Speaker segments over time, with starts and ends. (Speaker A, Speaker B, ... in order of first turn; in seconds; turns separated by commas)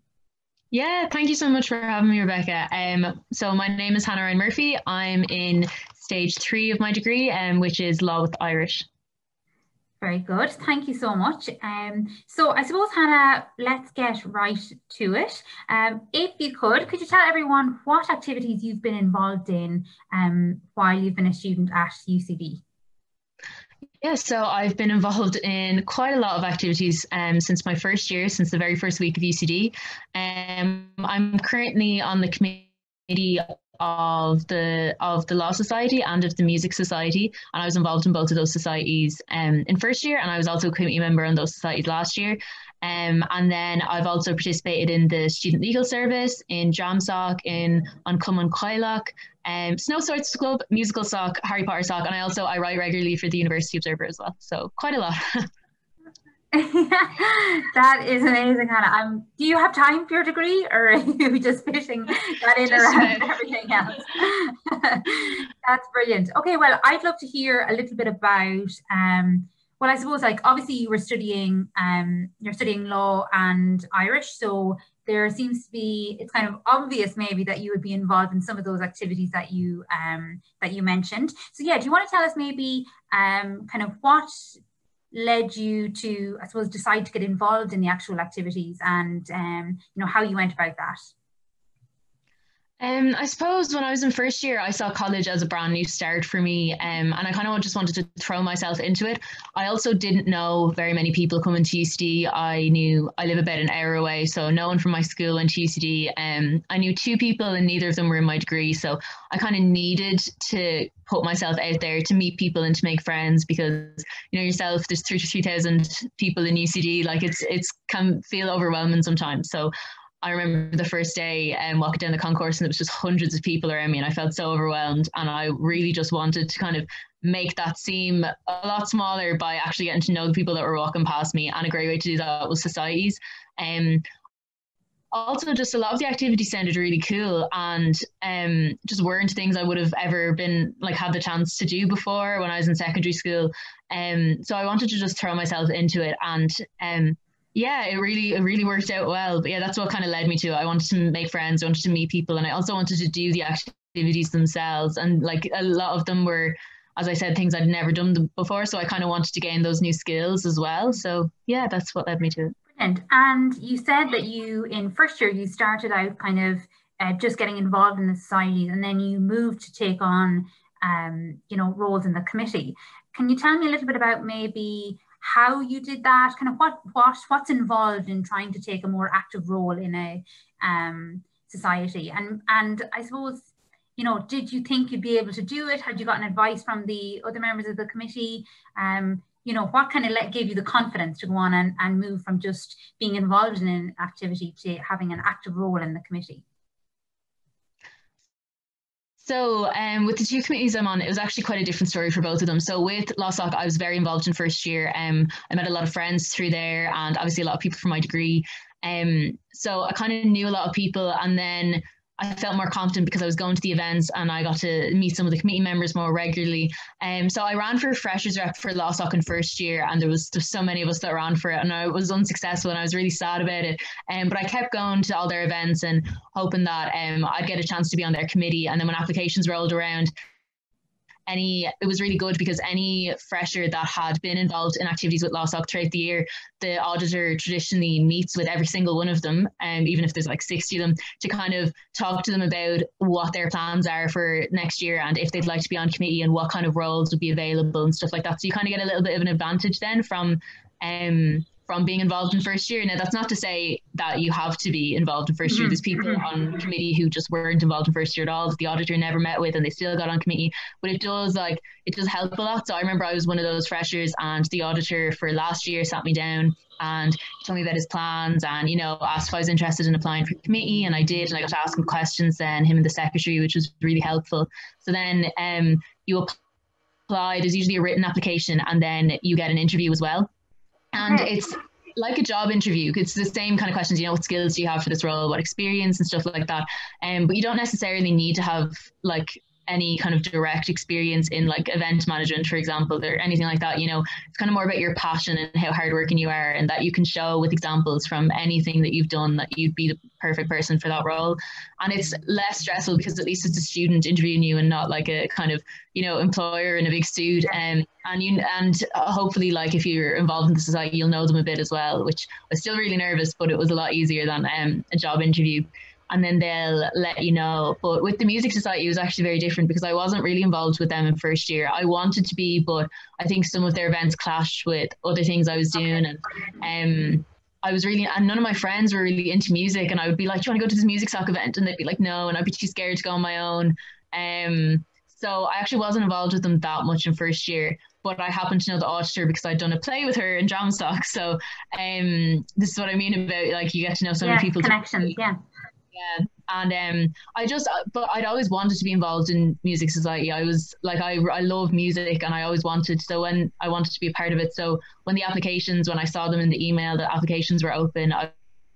Speaker A: 0.7-8.9, Speaker B: 10.0-22.6, Speaker A: 24.0-55.2, Speaker B: 56.5-84.6, Speaker A: 62.6-63.4, Speaker B: 85.1-91.1, Speaker A: 92.8-119.7, Speaker A: 120.2-134.0, Speaker A: 135.1-162.6, Speaker B: 162.7-196.4, Speaker A: 199.2-230.1, Speaker A: 231.3-276.3, Speaker B: 255.4-256.2, Speaker A: 277.1-280.3, Speaker A: 280.9-345.1, Speaker B: 281.0-281.3, Speaker B: 344.2-345.4, Speaker A: 345.9-358.3